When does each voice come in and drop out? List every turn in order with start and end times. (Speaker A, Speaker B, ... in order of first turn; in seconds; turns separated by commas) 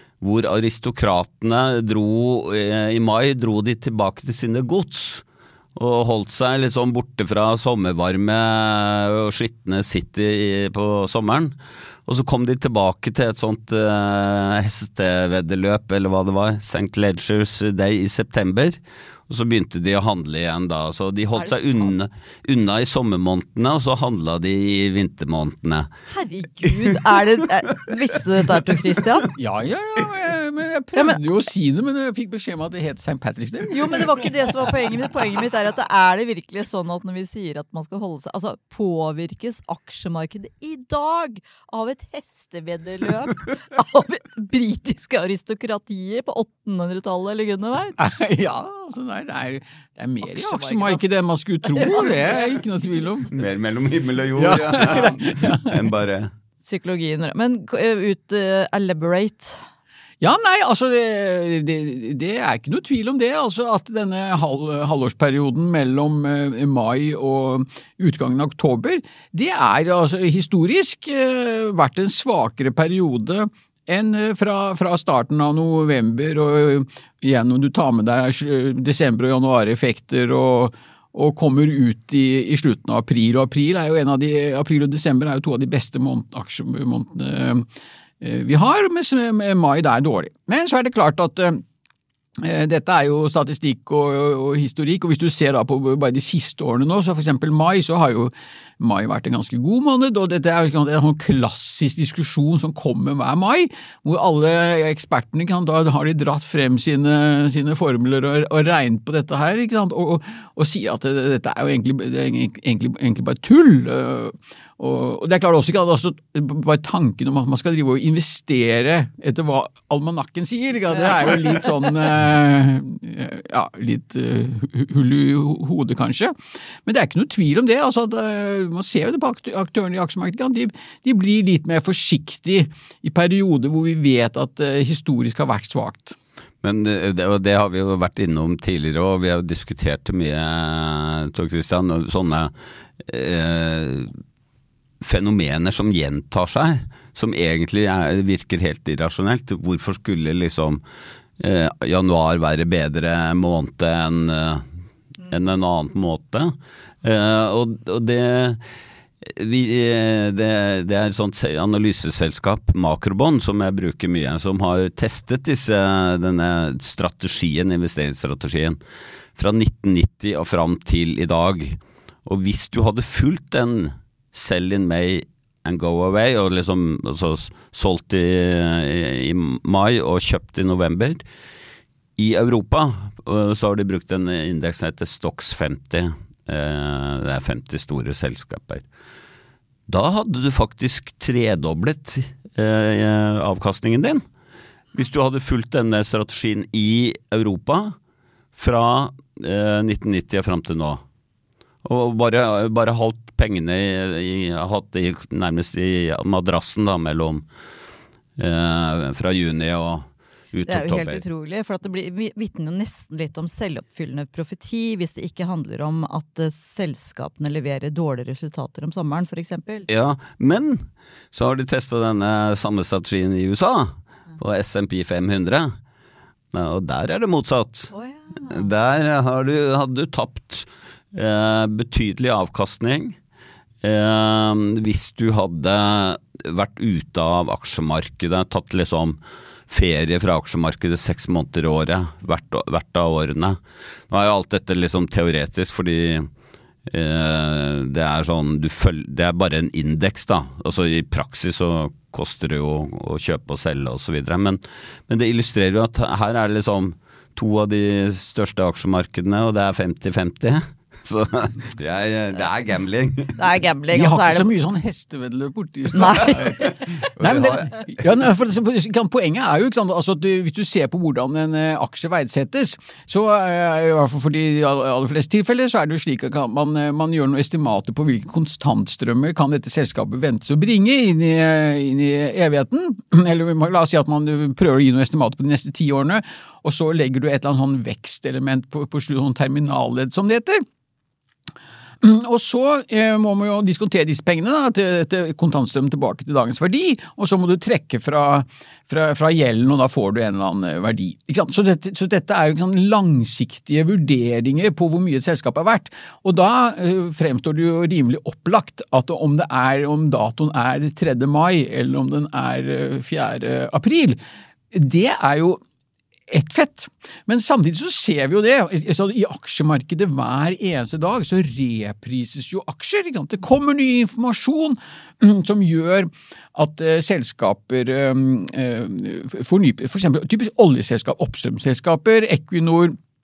Speaker A: 0.2-5.2, Speaker A: 5.8-11.5, Speaker A: 12.1-25.9, Speaker B: 21.3-21.9, Speaker B: 26.1-29.3, Speaker C: 29.4-34.1, Speaker B: 30.9-31.2, Speaker B: 33.7-48.0, Speaker C: 48.0-53.3, Speaker B: 50.2-53.3, Speaker A: 53.3-56.3, Speaker C: 54.3-55.9, Speaker B: 56.6-59.6, Speaker C: 60.2-87.7, Speaker C: 88.2-91.6, Speaker C: 92.4-126.3, Speaker C: 126.8-136.1, Speaker A: 136.6-144.1, Speaker A: 145.0-150.8, Speaker A: 151.4-154.6, Speaker A: 155.2-158.6, Speaker A: 159.2-168.8, Speaker A: 169.3-181.2, Speaker A: 182.2-188.8, Speaker A: 189.9-194.2, Speaker A: 194.9-197.9, Speaker A: 198.6-201.0, Speaker A: 201.8-207.4, Speaker A: 208.4-211.2, Speaker B: 210.7-219.9, Speaker A: 219.9-225.7, Speaker A: 226.5-227.9, Speaker B: 227.9-228.7, Speaker A: 228.5-233.2, Speaker A: 233.8-243.6, Speaker A: 244.1-246.3, Speaker A: 246.9-263.3, Speaker B: 263.4-264.5, Speaker C: 263.9-290.6, Speaker B: 266.0-266.4, Speaker A: 266.4-267.9, Speaker C: 292.0-314.2, Speaker C: 314.7-315.6, Speaker C: 316.3-333.0